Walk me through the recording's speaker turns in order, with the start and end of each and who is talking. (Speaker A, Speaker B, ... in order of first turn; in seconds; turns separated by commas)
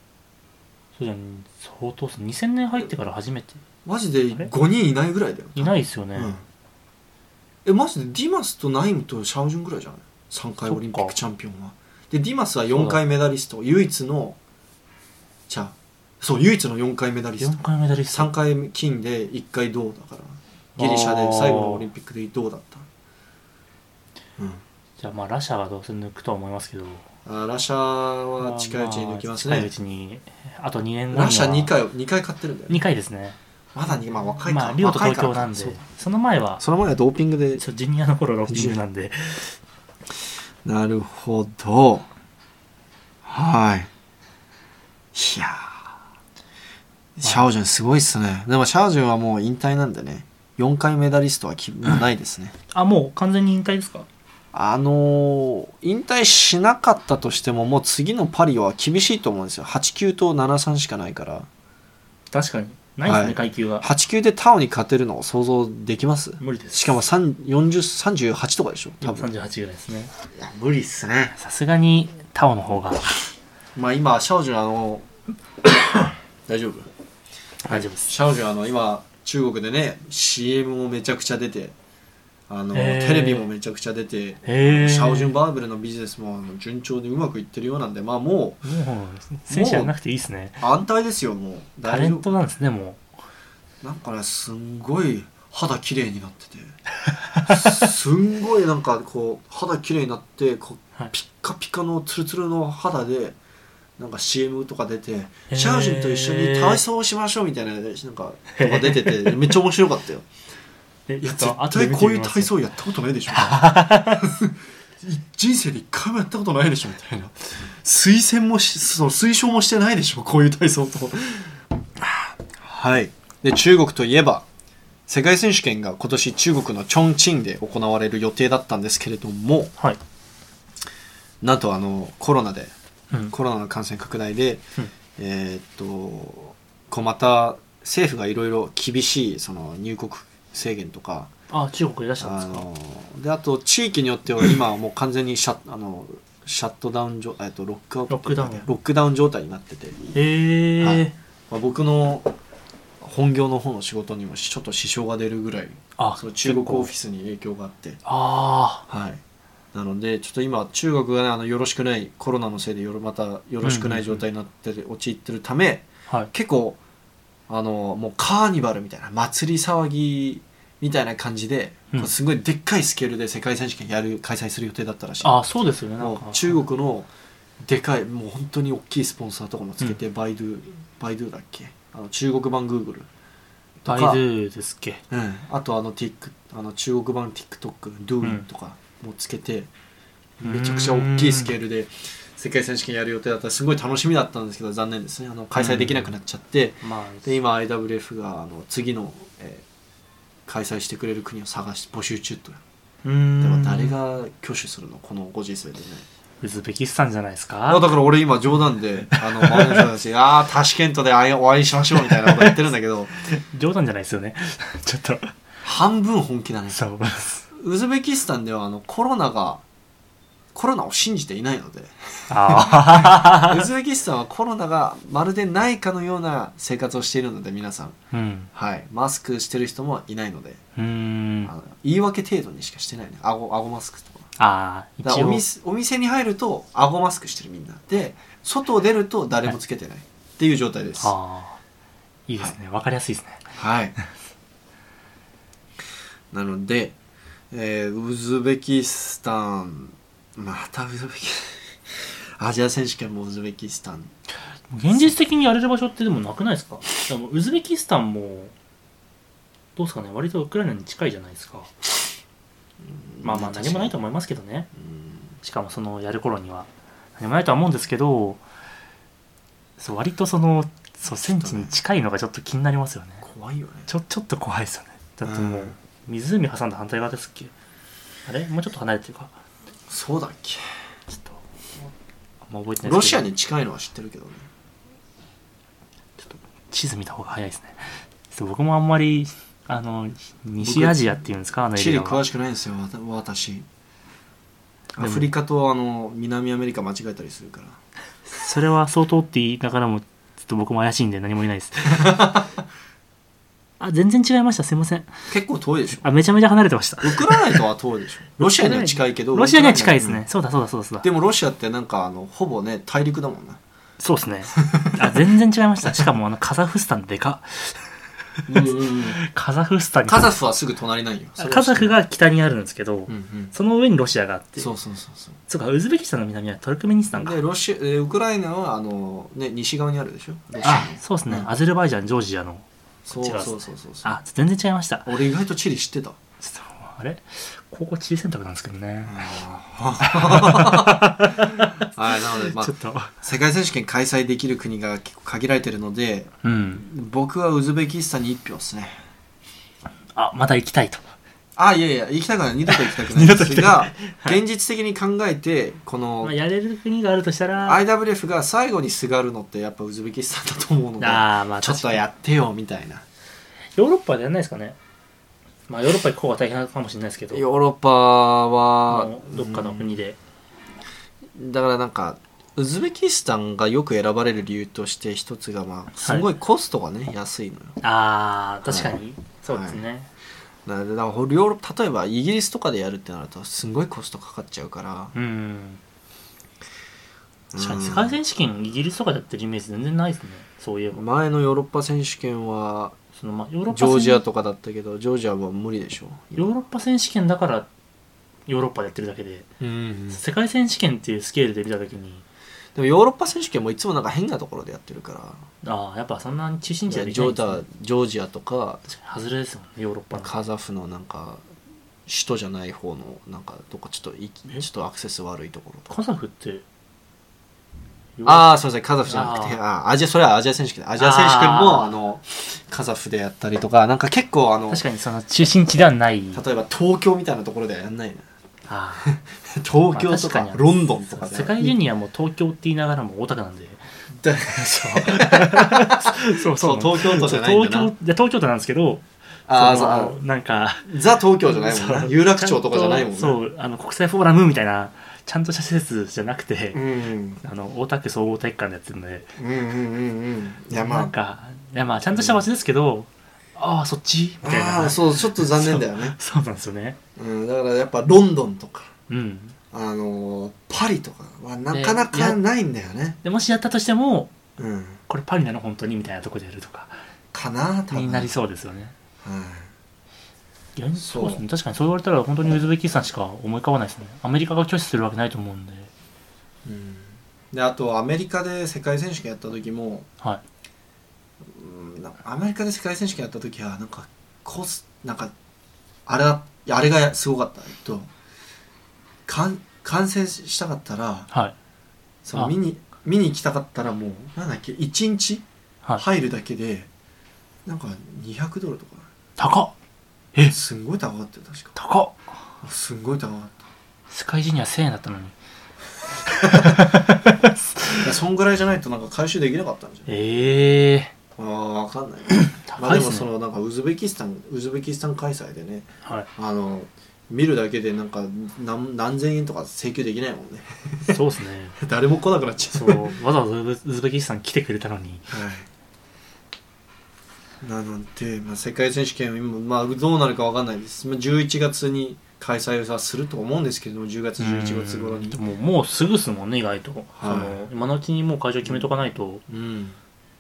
Speaker A: 1.0-3.6, Speaker B: 3.8-6.4, Speaker A: 5.5-6.3, Speaker B: 7.6-14.4, Speaker A: 10.7-11.2, Speaker A: 12.7-13.0, Speaker B: 15.5-22.9, Speaker A: 17.4-18.3, Speaker A: 20.8-21.9, Speaker B: 24.4-24.6, Speaker A: 25.0-27.0, Speaker B: 27.2-29.7, Speaker A: 28.4-31.7, Speaker B: 31.1-32.8, Speaker A: 32.7-33.4, Speaker B: 33.7-35.8, Speaker A: 34.5-36.6, Speaker B: 36.6-37.6, Speaker A: 37.6-39.5, Speaker B: 38.5-38.8, Speaker B: 40.6-42.1, Speaker B: 43.2-43.9, Speaker B: 45.1-45.9, Speaker B: 47.1-52.5, Speaker A: 52.7-54.1, Speaker B: 54.5-61.5, Speaker A: 62.3-63.9, Speaker B: 63.0-69.3, Speaker A: 66.4-67.0, Speaker A: 69.0-70.1, Speaker B: 70.3-71.3, Speaker A: 71.3-73.1, Speaker B: 73.7-75.1, Speaker B: 76.5-76.9, Speaker A: 77.6-78.1, Speaker B: 77.7-81.7, Speaker B: 82.5-88.6, Speaker A: 82.7-83.5, Speaker A: 84.4-85.3, Speaker A: 88.6-90.6, Speaker B: 89.5-89.9, Speaker B: 90.6-92.3, Speaker A: 91.8-93.0, Speaker B: 93.8-96.7, Speaker A: 97.1-97.9, Speaker B: 97.5-103.4, Speaker B: 104.0-110.3, Speaker A: 105.5-106.8, Speaker A: 108.5-109.5, Speaker A: 111.1-112.5, Speaker B: 111.2-124.5, Speaker A: 113.3-114.2, Speaker B: 125.1-129.7, Speaker B: 131.4-132.7, Speaker B: 133.3-134.6, Speaker B: 135.2-141.3, Speaker A: 141.5-142.7, Speaker B: 142.2-150.2, Speaker A: 148.1-148.7, Speaker A: 150.1-151.2, Speaker B: 150.8-152.3, Speaker B: 153.0-158.0, Speaker A: 156.0-156.9, Speaker A: 158.0-158.8, Speaker B: 158.9-159.2, Speaker B: 159.7-166.8, Speaker A: 163.6-164.2, Speaker B: 167.5-175.3, Speaker A: 175.2-176.6, Speaker B: 176.0-177.1, Speaker B: 177.6-183.1, Speaker B: 183.8-184.2, Speaker A: 183.9-185.0, Speaker B: 185.1-189.7, Speaker A: 188.2-188.4, Speaker B: 190.4-199.6, Speaker A: 190.4-191.5, Speaker A: 195.5-196.1, Speaker A: 196.8-197.3, Speaker B: 200.5-202.6, Speaker A: 203.0-203.9, Speaker B: 203.4-206.1, Speaker A: 206.4-207.9, Speaker B: 207.7-213.1, Speaker A: 209.1-209.9, Speaker A: 212.0-212.6, Speaker A: 213.3-215.3, Speaker B: 215.6-216.8, Speaker A: 216.7-217.4, Speaker B: 217.5-219.6, Speaker B: 220.5-228.0, Speaker A: 222.3-223.7, Speaker A: 228.1-228.5, Speaker B: 228.5-230.6, Speaker A: 230.8-231.5, Speaker B: 231.4-234.3, Speaker A: 234.4-235.4, Speaker B: 235.0-241.1, Speaker A: 241.0-241.6, Speaker A: 242.3-243.4, Speaker B: 243.6-243.9, Speaker B: 246.3-246.9, Speaker B: 247.5-254.1, Speaker A: 254.7-258.5, Speaker A: 259.8-261.7, Speaker B: 262.8-263.9, Speaker A: 263.2-264.7, Speaker B: 264.8-265.2, Speaker A: 265.4-268.4, Speaker A: 269.8-273.2, Speaker B: 271.3-271.7, Speaker B: 273.2-273.9, Speaker A: 273.9-277.5, Speaker B: 275.2-275.8, Speaker A: 278.2-279.3, Speaker B: 279.9-280.6, Speaker A: 281.1-281.4, Speaker A: 282.5-283.3, Speaker B: 282.8-284.4, Speaker A: 286.2-292.2, Speaker B: 290.6-291.0, Speaker B: 291.7-293.6, Speaker B: 294.9-297.8, Speaker A: 295.0-295.3, Speaker A: 298.3-302.3, Speaker B: 301.9-302.5, Speaker A: 303.8-305.1, Speaker B: 305.3-306.1, Speaker A: 306.0-307.6, Speaker B: 307.0-310.2, Speaker A: 308.4-311.1, Speaker B: 311.0-313.6, Speaker A: 314.0-317.8, Speaker B: 314.6-315.2, Speaker B: 318.5-319.2, Speaker A: 318.5-320.4, Speaker B: 320.1-321.9, Speaker A: 321.4-324.7, Speaker B: 323.1-323.5, Speaker B: 324.6-325.4, Speaker A: 325.5-327.4, Speaker B: 327.1-331.5, Speaker A: 330.6-335.1, Speaker B: 333.1-334.2, Speaker B: 335.1-336.2, Speaker A: 336.4-339.3, Speaker B: 339.1-349.0, Speaker A: 340.0-343.1, Speaker A: 346.4-346.9, Speaker A: 350.1-351.1, Speaker B: 351.6-356.3, Speaker A: 352.7-354.4, Speaker A: 356.2-357.8, Speaker B: 357.6-363.0, Speaker A: 361.0-362.0, Speaker A: 363.8-364.8, Speaker A: 365.7-367.4, Speaker B: 367.3-369.9, Speaker A: 368.9-370.2, Speaker B: 371.3-377.8, Speaker A: 376.0-376.3, Speaker A: 377.8-380.1, Speaker B: 378.6-378.9, Speaker B: 379.5-379.8, Speaker B: 380.6-385.1, Speaker A: 385.1-385.8, Speaker B: 387.5-388.2, Speaker A: 387.6-391.0, Speaker B: 390.9-393.0, Speaker A: 393.1-394.2, Speaker B: 393.7-396.5, Speaker A: 396.4-397.7, Speaker A: 398.5-399.5, Speaker B: 399.6-400.2, Speaker A: 400.1-402.2, Speaker B: 402.7-405.4, Speaker A: 405.6-407.6, Speaker B: 406.9-408.9, Speaker A: 408.9-410.3, Speaker B: 410.1-411.4, Speaker B: 412.1-415.9, Speaker A: 415.9-416.6, Speaker A: 418.2-419.6, Speaker B: 418.2-424.8, Speaker A: 421.0-422.0, Speaker A: 424.7-426.4, Speaker B: 426.3-428.2, Speaker A: 428.7-429.1, Speaker B: 429.0-431.8, Speaker A: 429.9-433.8, Speaker B: 434.2-437.9, Speaker A: 434.5-440.9, Speaker B: 439.5-440.2, Speaker B: 440.8-443.4, Speaker A: 441.4-446.8, Speaker B: 446.7-447.4, Speaker A: 447.4-449.3, Speaker B: 449.4-451.1, Speaker A: 450.7-457.0, Speaker B: 452.1-452.4, Speaker B: 454.4-456.1, Speaker B: 457.2-458.9, Speaker A: 459.1-459.6, Speaker B: 459.7-463.2, Speaker A: 461.7-462.4, Speaker A: 463.2-464.3, Speaker B: 464.6-465.0, Speaker A: 465.1-467.0, Speaker B: 467.3-468.3, Speaker A: 467.9-468.9, Speaker B: 469.2-469.7, Speaker A: 470.8-475.9, Speaker B: 471.0-471.4, Speaker B: 476.6-480.1, Speaker B: 481.4-485.3, Speaker B: 486.1-488.1, Speaker B: 489.2-491.3, Speaker B: 492.2-495.4, Speaker B: 496.0-496.9, Speaker B: 497.6-499.1, Speaker A: 499.4-499.7, Speaker B: 500.5-501.7, Speaker A: 501.8-502.2, Speaker B: 502.6-503.6, Speaker A: 504.1-505.3, Speaker A: 506.3-508.0, Speaker B: 506.5-506.8, Speaker B: 507.9-510.1, Speaker A: 510.1-511.1, Speaker B: 511.4-521.2, Speaker A: 512.5-513.3, Speaker A: 521.1-521.8, Speaker B: 521.8-523.1, Speaker A: 522.7-525.3, Speaker B: 525.3-525.7, Speaker B: 527.6-535.4, Speaker A: 534.4-539.4, Speaker B: 537.1-537.6, Speaker B: 539.5-540.0